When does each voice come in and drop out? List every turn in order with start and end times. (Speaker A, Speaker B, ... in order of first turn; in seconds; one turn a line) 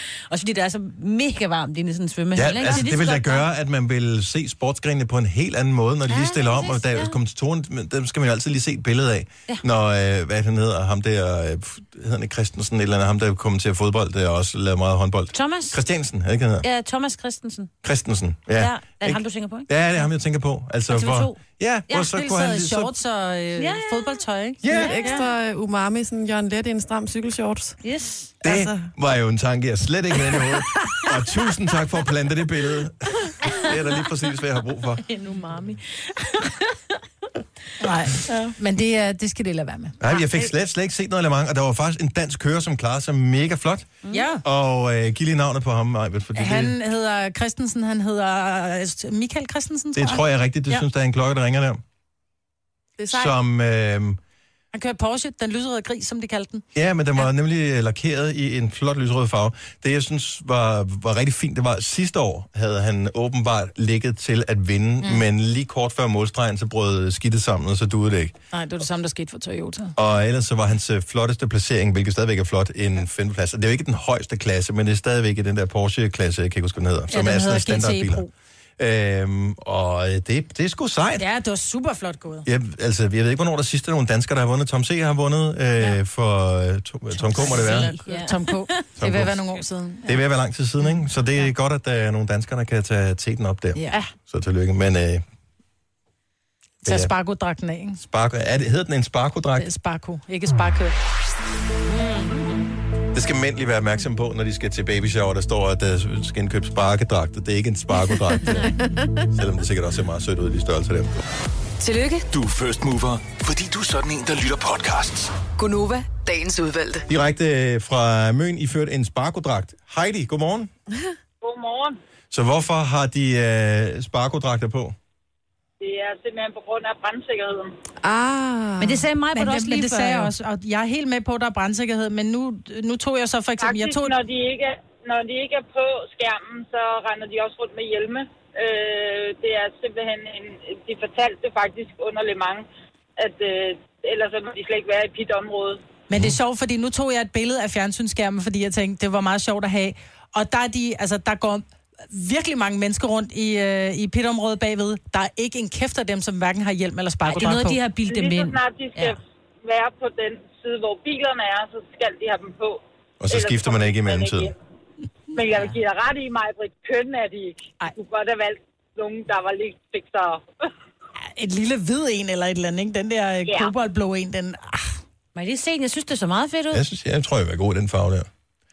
Speaker A: 0.3-3.5
Speaker B: 2.4-16.7
Speaker A: 6.1-7.2
Speaker A: 15.3-15.8
Speaker A: 16.6-17.7
Speaker B: 17.8-22.9
Speaker A: 18.6-19.7
Speaker A: 20.9-21.4
Speaker C: 22.0-25.2
Speaker A: 23.6-25.3
Speaker B: 24.6-25.0
Speaker D: 24.7-27.8
Speaker A: 27.8-28.3
Speaker D: 28.4-28.9
Speaker B: 28.4-35.0
Speaker A: 35.0-36.8
Speaker C: 37.8-40.0
Speaker A: 38.2-38.5
Speaker B: 40.0-43.9
Speaker A: 40.1-40.5
Speaker A: 44.0-44.3
Speaker C: 44.1-44.4
Speaker B: 44.4-46.8
Speaker C: 46.4-50.9
Speaker B: 50.0-51.8
Speaker D: 53.0-53.4
Speaker B: 53.1-54.2
Speaker C: 54.7-56.6
Speaker B: 56.8-68.3
Speaker C: 68.5-69.9
Speaker B: 70.0-78.3
Speaker C: 77.1-78.3
Speaker B: 78.8-81.2
Speaker C: 81.2-82.5
Speaker B: 82.5-87.9
Speaker C: 87.3-90.2
Speaker A: 87.4-88.8
Speaker B: 89.0-89.5
Speaker B: 90.1-95.2
Speaker C: 93.8-94.1
Speaker B: 96.8-97.1
Speaker C: 96.8-98.0
Speaker B: 98.0-99.7
Speaker C: 99.6-100.9
Speaker A: 101.9-102.5
Speaker B: 103.1-108.7
Speaker D: 108.5-109.1
Speaker B: 109.3-111.1
Speaker E: 111.8-112.3
Speaker F: 112.3-115.4
Speaker E: 115.5-117.1
Speaker B: 117.1-120.7
Speaker G: 121.4-122.0
Speaker B: 122.3-125.0
Speaker G: 125.8-127.8
Speaker D: 128.0-129.0
Speaker A: 128.8-130.3
Speaker C: 129.3-134.2
Speaker G: 133.6-142.7
Speaker G: 143.2-145.8
Speaker C: 146.1-157.8
Speaker B: 146.1-146.4
Speaker A: 157.3-159.2
Speaker G: 158.1-164.6
Speaker B: 163.2-164.5
Speaker G: 165.3-170.4
Speaker C: 171.4-175.0
Speaker G: 173.5-173.7
Speaker A: 175.3-176.8
Speaker B: 176.7-178.3